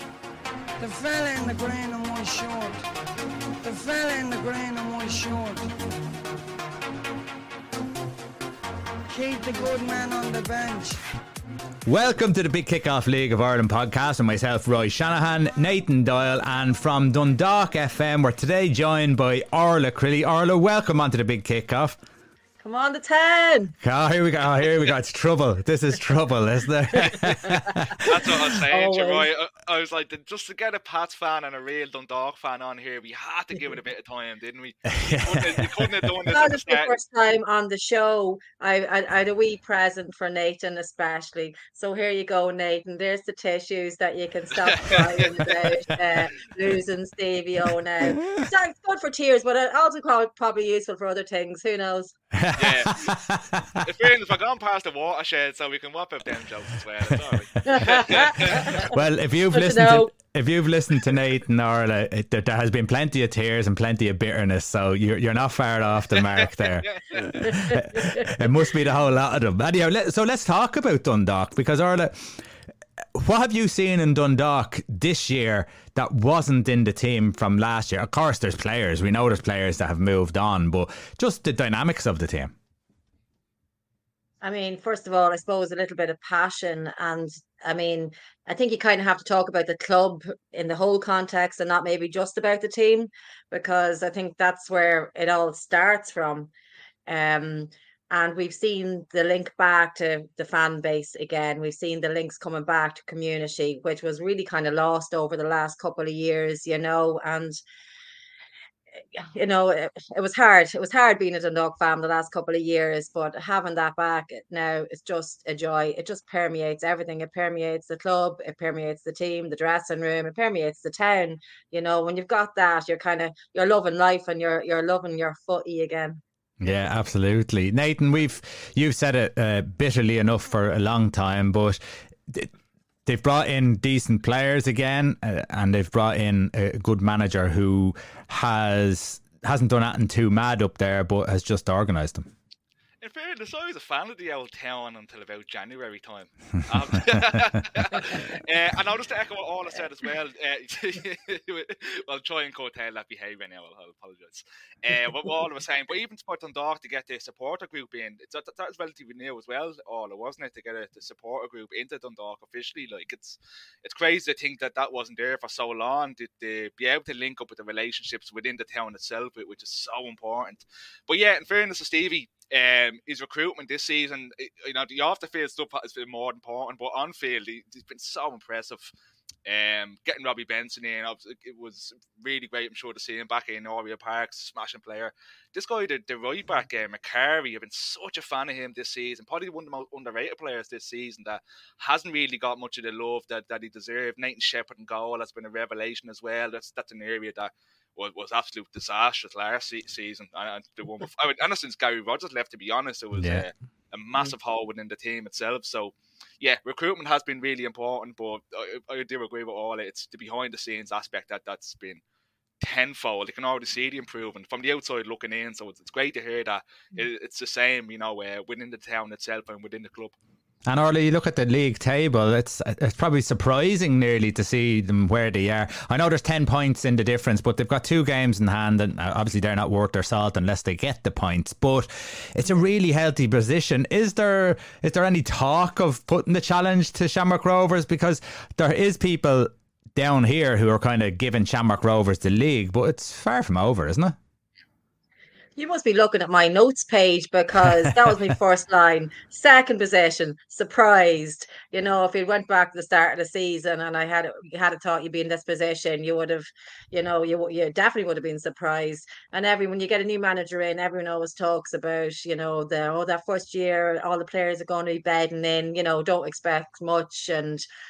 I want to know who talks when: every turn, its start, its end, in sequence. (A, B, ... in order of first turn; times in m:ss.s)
0:00.8-0:02.8 A
0:03.6-0:05.7 A
0:09.1-0:11.0 A
0:11.8-0:22.0 B
0:22.6-0:23.7 C
0:23.8-0:28.3 B
0:27.0-0:27.8 C
0:28.0-0:36.9 D
0:28.7-0:29.3 C
0:34.9-0:36.1 B
0:36.2-0:52.1 C
0:44.6-0:45.5 D
0:48.0-0:48.4 B
0:52.3-0:53.8 B
0:52.6-0:53.2 D
0:53.8-0:58.9 D
0:57.6-0:58.9 C
0:58.8-1:12.4 B
0:59.5-1:00.1 C
1:06.2-1:07.5 D
1:07.4-1:08.3 C
1:13.1-1:22.5 B
1:24.4-1:36.5 C
1:37.1-1:47.6 C
1:49.1-2:06.2 C
2:06.6-2:12.5 B
2:13.0-2:22.3 B
2:23.0-2:58.9 D
2:59.4-3:32.0 D
3:23.1-3:23.4 B
3:32.6-3:40.2 D
3:40.7-4:04.2 B
4:05.6-4:27.6 C